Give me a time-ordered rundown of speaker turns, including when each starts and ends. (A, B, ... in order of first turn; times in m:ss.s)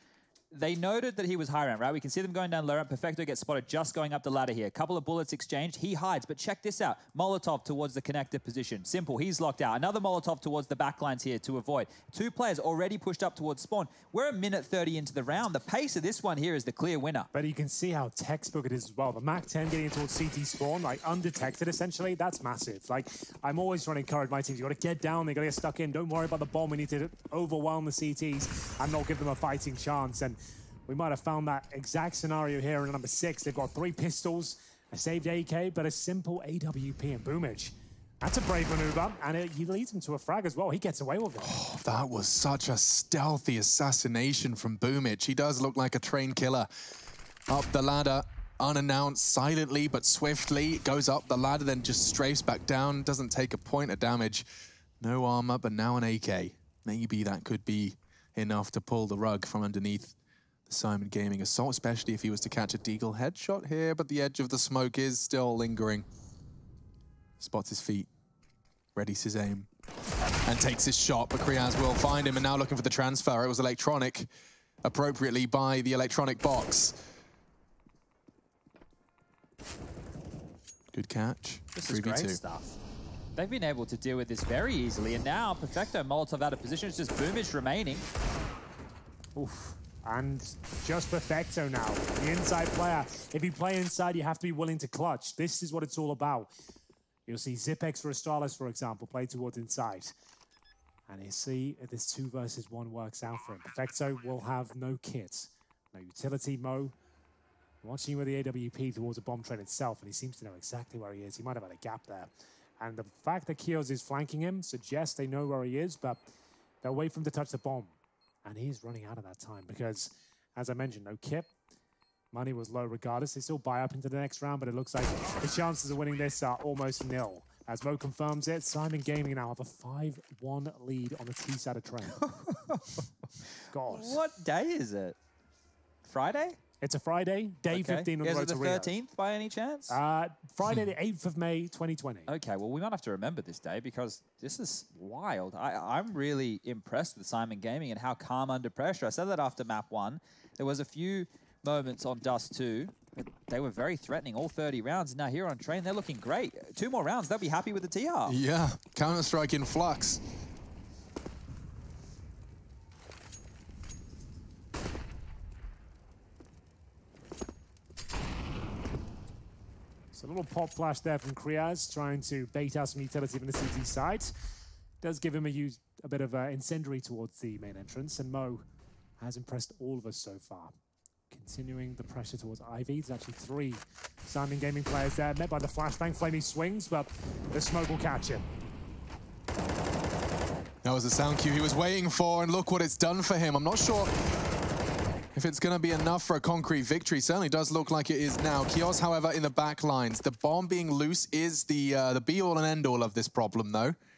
0:00.5-0:17.3 A
0:17.3-0:41.6 B
0:41.4-0:46.7 C
0:47.5-0:54.4 C
0:55.0-1:00.1 C
1:00.7-1:06.1 C
1:07.4-1:08.1 C
1:08.9-1:09.7 C
1:10.4-1:14.3 C
1:14.8-1:17.0 C
1:20.9-1:22.4 C
1:21.8-1:22.8 A
1:23.4-1:28.0 A
1:29.3-1:36.5 B
1:37.3-1:40.1 B
1:41.1-1:46.9 B
1:47.8-1:56.3 B
1:56.8-2:01.5 B
2:02.3-2:12.2 B
2:12.1-2:13.0 A
2:13.7-2:14.2 B
2:13.8-2:15.2 A
2:16.0-2:16.6 A
2:16.8-2:18.9 B
2:17.7-2:20.0 A
2:19.9-2:22.3 B
2:22.3-2:38.4 A
2:38.2-2:40.2 C
2:50.1-2:54.3 B
2:55.0-2:58.6 B
2:59.2-3:00.7 B
3:01.3-3:08.5 B
3:10.8-3:14.1 C
3:15.3-3:24.0 C